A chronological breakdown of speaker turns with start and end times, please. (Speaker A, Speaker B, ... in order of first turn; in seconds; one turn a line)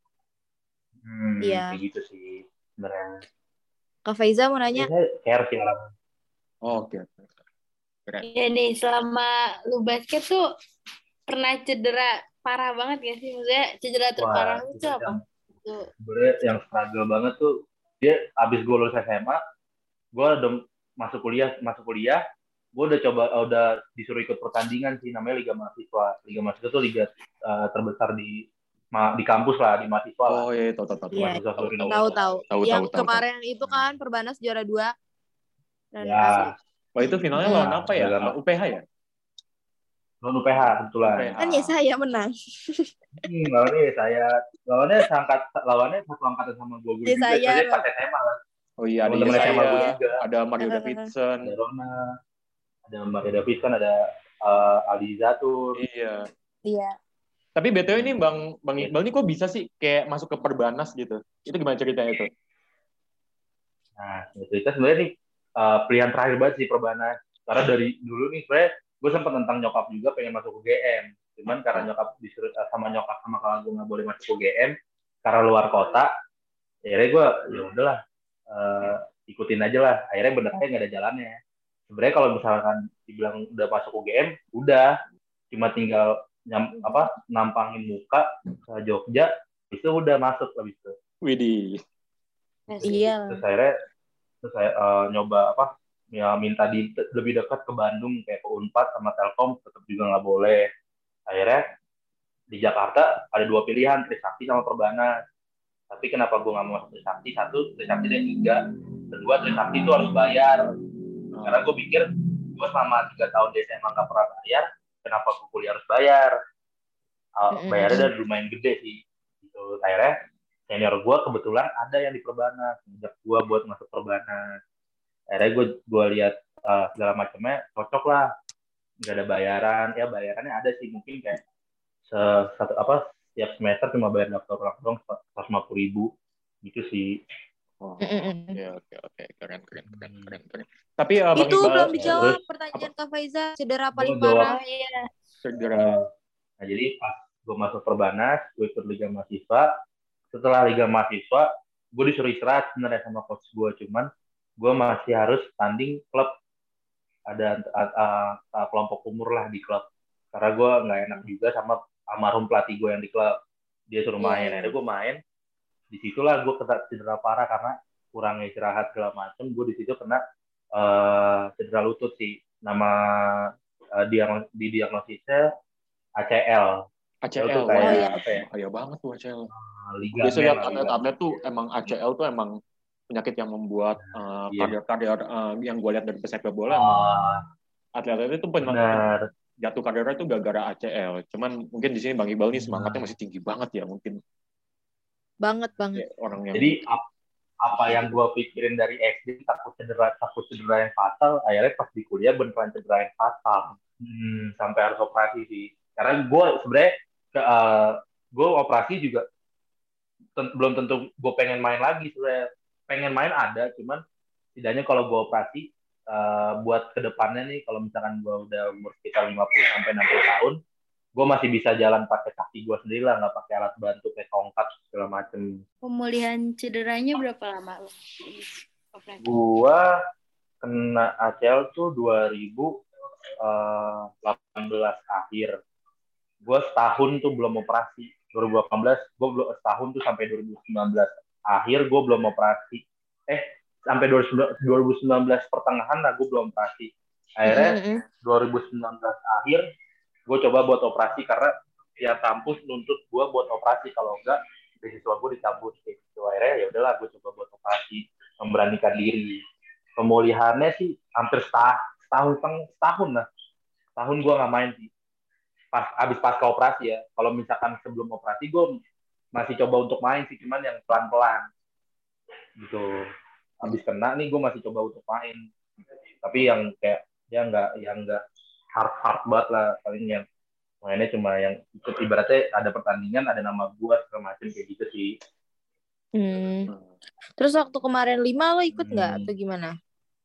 Speaker A: 1.0-3.1
Speaker B: 1.4-1.8
Speaker B: 4.0-4.9
Speaker A: 4.7-5.8
Speaker C: 6.6-7.3
Speaker D: 8.2-10.4
Speaker D: 11.3-15.9
Speaker A: 14.2-15.2
Speaker A: 16.0-19.4
Speaker A: 20.1-22.2
Speaker A: 22.8-30.4
Speaker C: 30.3-33.2
Speaker A: 31.1-32.2
Speaker B: 31.1-34.9
Speaker B: 35.9-36.5
Speaker A: 36.0-36.5
Speaker C: 37.0-38.8
Speaker A: 37.4-38.3
Speaker B: 37.4-37.7
Speaker A: 40.2-41.3
Speaker C: 41.0-41.7
Speaker B: 41.4-42.9
Speaker A: 43.2-48.3
Speaker B: 47.0-47.8
Speaker C: 48.8-51.5
Speaker A: 49.1-50.2
Speaker B: 49.3-50.0
Speaker B: 50.6-51.1
Speaker A: 51.4-51.9
Speaker A: 52.9-55.8
Speaker C: 55.8-56.2
Speaker B: 56.6-56.9
Speaker C: 57.5-62.3
Speaker A: 64.0-76.1
Speaker A: 76.8-78.0
Speaker A: 78.5-81.4
Speaker A: 81.9-84.9
Speaker A: 85.5-90.9
Speaker C: 91.2-91.8
Speaker D: 92.7-93.1
Speaker A: 92.8-93.7
Speaker B: 92.8-93.4
Speaker A: 94.4-100.7
Speaker A: 101.3-101.6
Speaker A: 102.5-105.1
Speaker A: 105.9-110.7
Speaker C: 111.3-111.7
Speaker A: 111.5-116.3
Speaker A: 117.4-120.1
Speaker B: 117.5-118.1
Speaker A: 120.7-124.4
Speaker A: 125.3-128.3
Speaker A: 129.0-131.4
Speaker A: 132.1-136.1
Speaker A: 136.6-137.2
Speaker C: 137.8-142.2
Speaker B: 138.0-138.6
Speaker A: 139.9-140.3
Speaker B: 141.4-144.6
Speaker A: 142.0-142.4
Speaker A: 143.9-144.5
Speaker D: 144.4-145.1
Speaker C: 145.4-146.0
Speaker A: 146.6-149.7
Speaker A: 150.3-154.1
Speaker A: 154.6-156.3
Speaker A: 157.3-163.3
Speaker A: 163.9-165.2
Speaker B: 164.2-164.7
Speaker A: 165.9-170.2
Speaker A: 170.8-173.5
Speaker A: 174.0-175.4
Speaker A: 176.2-176.7
Speaker C: 177.2-179.5
Speaker A: 177.4-178.4
Speaker B: 177.8-178.2
Speaker A: 179.5-181.0
Speaker C: 180.2-182.5
Speaker D: 180.6-180.9
Speaker C: 183.1-187.0
Speaker A: 184.0-184.7
Speaker A: 186.7-187.4
Speaker C: 187.9-189.1
Speaker A: 188.6-189.2
Speaker C: 189.6-194.2
Speaker A: 192.6-193.1
Speaker B: 195.4-196.0
Speaker C: 195.9-196.8
Speaker A: 196.5-197.0
Speaker A: 197.6-209.2
Speaker A: 210.3-214.0
Speaker A: 214.6-220.6
Speaker A: 221.2-225.6
Speaker D: 225.8-229.2
Speaker A: 229.2-229.9
Speaker A: 230.6-232.7
Speaker A: 233.4-235.5
Speaker A: 236.4-249.6
Speaker B: 247.5-248.0
Speaker A: 250.3-259.4
Speaker A: 260.0-263.2
Speaker A: 264.0-264.9
Speaker A: 265.7-268.7
Speaker A: 269.3-271.4
Speaker A: 272.6-272.9
Speaker A: 273.6-275.4
Speaker A: 276.2-278.2
Speaker A: 278.8-280.2
Speaker A: 280.8-285.1
Speaker B: 286.1-286.7
Speaker B: 287.4-289.7
Speaker A: 288.7-289.3